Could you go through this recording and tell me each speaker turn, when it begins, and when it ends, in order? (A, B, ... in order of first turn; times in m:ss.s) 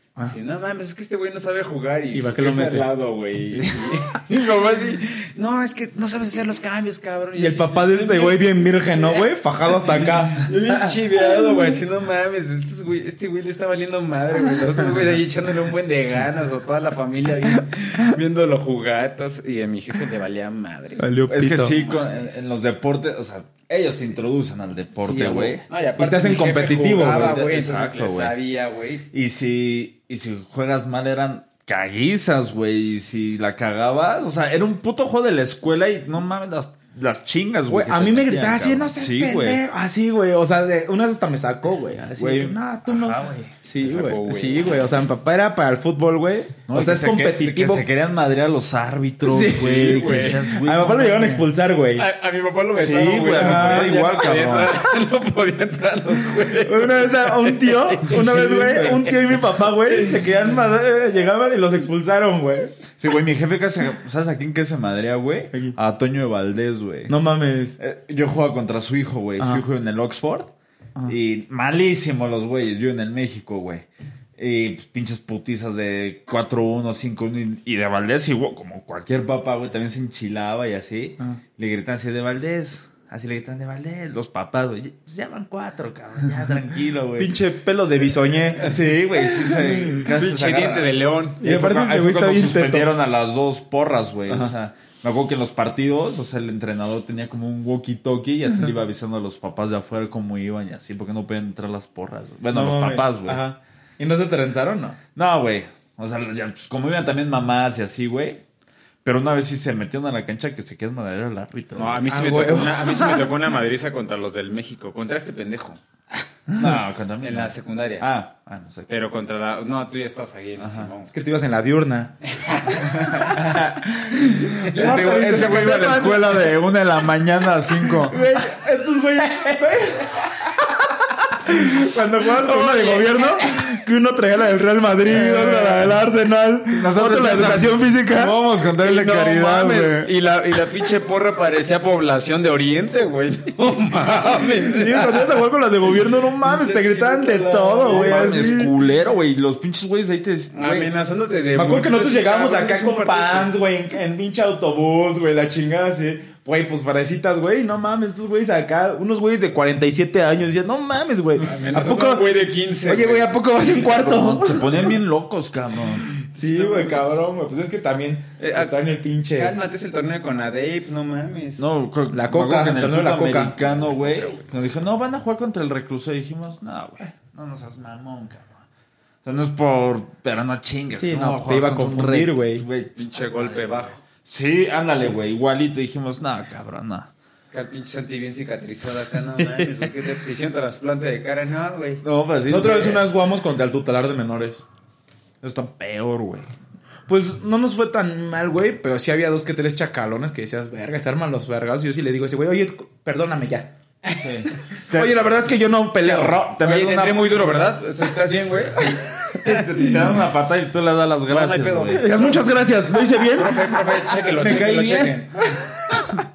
0:00.2-0:09.2 A
0:02.1-0:02.9 B
0:07.4-0:10.5 B
0:10.4-0:21.1 A
0:21.0-0:21.8 B
0:21.3-0:25.6 C
0:21.7-0:22.4 A
0:25.0-0:27.4 B
0:25.7-0:29.1 A
0:26.8-0:28.4 C
0:29.1-0:39.6 C
0:37.7-0:47.9 B
0:42.2-0:43.5 C
0:43.8-0:44.6 A
0:46.7-0:51.4 C
0:49.2-0:52.1 B
0:49.7-0:50.5 A
0:52.0-0:58.2 A
0:52.8-0:54.8 C
0:53.3-0:54.1 B
0:56.5-1:02.8 B
0:58.1-0:59.1 C
1:03.0-1:07.1 C
1:07.1-1:07.8 B
1:07.8-1:10.5 C
1:09.4-1:09.6 B
1:11.1-1:27.3 C
1:27.2-1:28.8 B
1:28.6-1:43.4 C
1:30.0-1:31.4 A
1:31.4-1:32.9 B
1:42.5-1:45.0 B
1:45.2-1:48.4 C
1:49.0-1:52.0 C
1:51.8-1:55.8 A
1:52.1-1:53.3 B
1:56.6-1:58.9 C
1:57.2-1:58.1 A
1:58.9-2:01.1 A
2:00.6-2:00.9 C
2:01.1-2:02.1 B
2:02.3-2:03.4 A
2:03.0-2:08.4 C
2:04.5-2:06.5 B
2:04.5-2:05.8 A
2:08.0-2:18.4 B
2:12.4-2:13.6 A
2:15.1-2:16.0 C
2:16.7-2:20.1 C
2:18.8-2:25.3 A
2:24.6-2:28.7 B
2:26.4-2:28.6 A
2:27.8-2:30.9 C
2:30.5-2:33.5 A
2:31.6-2:45.0 B
2:41.4-2:43.3 A
2:43.8-2:46.1 C
2:46.3-2:49.5 B
2:46.4-2:47.2 A
2:48.4-2:48.8 A
2:49.3-2:51.7 A
2:51.6-2:58.6 C
2:52.1-2:53.6 B
2:53.6-2:54.5 A
2:59.2-3:07.1 C
3:00.9-3:02.7 B
3:03.0-3:04.0 A
3:07.5-3:12.0 A
3:12.0-3:13.1 C
3:12.5-3:14.6 B
3:15.4-3:16.5 C
3:17.1-3:23.7 B
3:24.1-3:25.3 C
3:24.8-3:26.4 B
3:26.0-3:27.6 C
3:26.6-3:29.6 A
3:29.3-3:32.3 C
3:29.7-3:30.1 B
3:31.3-3:32.5 A
3:31.9-3:33.8 B
3:33.2-3:35.4 A
3:34.3-3:35.4 C
3:35.5-3:36.2 B